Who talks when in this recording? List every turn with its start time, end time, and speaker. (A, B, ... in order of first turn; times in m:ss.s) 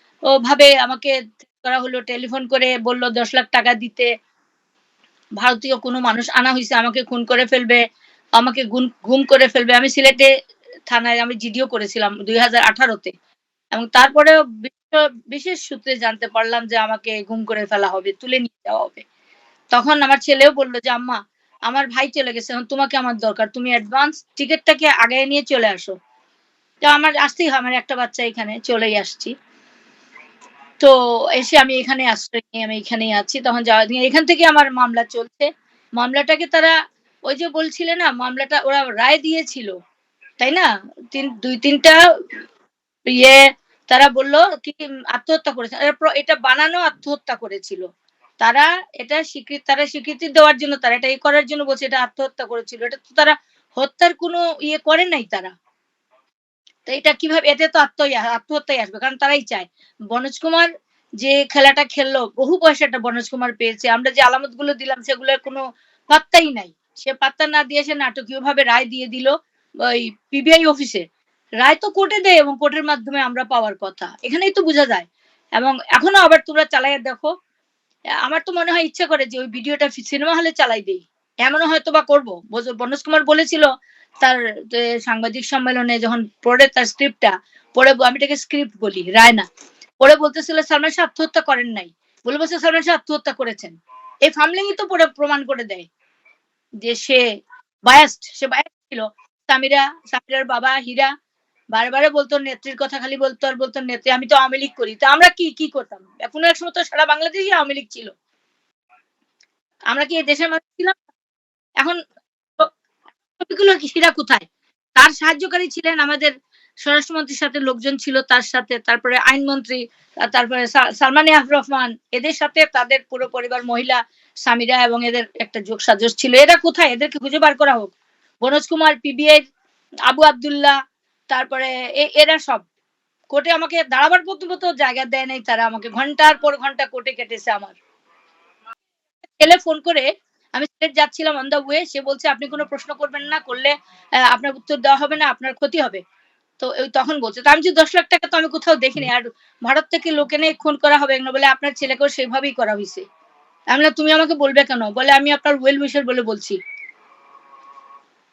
0:00.4-0:04.1 A
0:05.4-0:07.8 A
0:08.4-0:10.3 A
0:10.9-0:13.1 A
0:13.7-0:19.0 A
0:19.7-0:26.0 A
0:26.8-0:29.3 A
0:30.8-0:36.7 A
0:37.3-0:39.7 A
0:40.4-0:42.0 A
0:43.1-0:47.8 A
0:48.4-0:55.5 A
0:56.9-1:00.7 A
1:01.2-1:09.3 A
1:09.8-1:11.0 A
1:11.6-1:17.3 A
1:18.2-1:23.7 A
1:24.2-1:29.5 A
1:30.0-1:35.9 A
1:36.8-1:37.2 A
1:37.9-1:41.1 A
1:41.7-1:48.1 A
1:49.9-1:51.0 A
1:53.4-1:54.4 A
1:55.0-1:56.3 A
1:56.8-2:09.4 A
2:10.1-2:10.8 A
2:11.3-2:12.7 A
2:13.3-2:17.8 A
2:19.4-2:23.7 A
2:24.2-2:26.0 A
2:26.6-2:33.0 A
2:33.7-2:36.6 A